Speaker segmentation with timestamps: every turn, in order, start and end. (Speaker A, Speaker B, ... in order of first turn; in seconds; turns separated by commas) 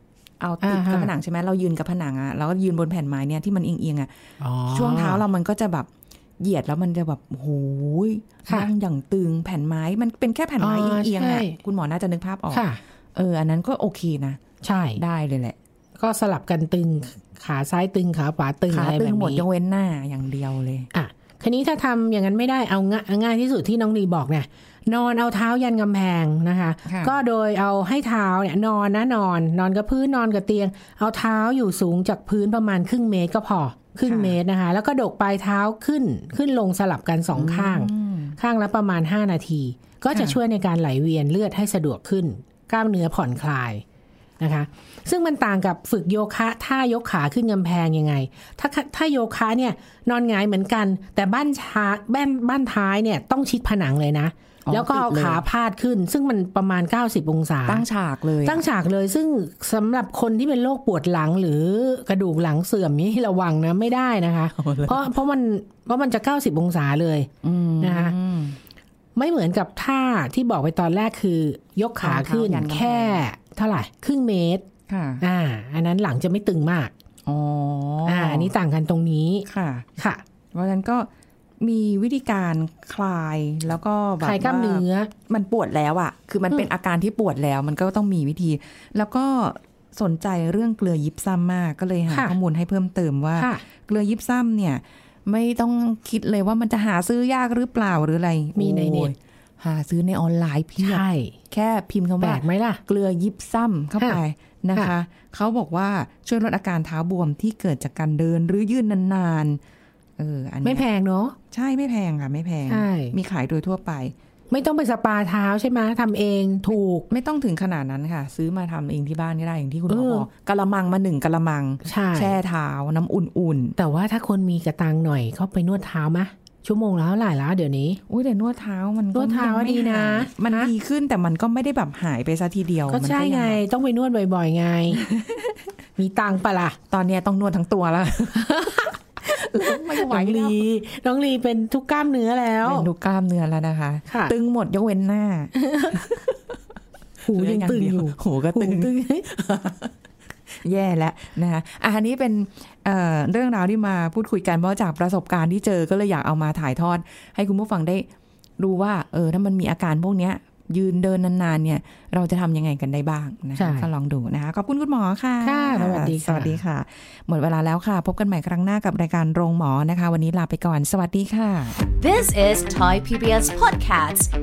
Speaker A: 0.4-4.1, Speaker B: 0.6-1.1, Speaker B: 4.4-5.2, Speaker A: 4.7-5.9, Speaker A: 6.4-14.4, Speaker B: 10.6-11.6, Speaker B: 12.5-12.8, Speaker B: 14.6-15.0, Speaker A: 15.0-15.6, Speaker B: 16.0-19.4, Speaker A: 18.7-20.9, Speaker B: 20.9-43.8, Speaker A: 26.9-27.2, Speaker A: 34.0-34.4, Speaker A: 37.3-38.4, Speaker A: 40.1-40.4, Speaker B: 44.4-57.9, Speaker A: 54.7-55.4, Speaker A: 57.7-58.6, Speaker B: 58.5-67.3, Speaker A: 64.6-65.1, Speaker A: 67.4-68.6, Speaker B: 67.8-68.2, Speaker B: 69.2-74.7, Speaker A: 72.0-73.2, Speaker A: 74.9-75.2, Speaker B: 75.2-76.9, Speaker A: 77.3-78.5, Speaker B: 78.1-79.5, Speaker A: 79.5-79.9, Speaker A: 80.5-81.1, Speaker A: 81.6-109.6, Speaker B: 84.2-85.1, Speaker B: 92.1-92.4, Speaker B: 93.4-93.6, Speaker B: 98.6-99.1, Speaker B: 100.8-101.3, Speaker B: 102.2-102.8, Speaker A: 110.2-110.9, Speaker B: 110.6-111.4, Speaker A: 111.5-114.1, Speaker B: 112.7-113.2, Speaker B: 114.5-117.1, Speaker A: 116.7-123.8, Speaker B: 119.9-120.3, Speaker B: 121.8-122.4, Speaker B: 123.8-128.0, Speaker A: 128.1-133.6, Speaker B: 129.1-130.7, Speaker B: 132.9-135.0, Speaker A: 134.9-135.6, Speaker B: 136.0-136.8, Speaker A: 136.9-140.6, Speaker B: 138.3-142.9, Speaker A: 142.6-146.5, Speaker B: 144.1-144.3, Speaker B: 145.6-146.1, Speaker B: 147.2-149.2, Speaker A: 147.3-149.9, Speaker A: 150.6-171.8, Speaker B: 163.6-163.9, Speaker B: 165.4-166.6, Speaker C: 172.0-174.3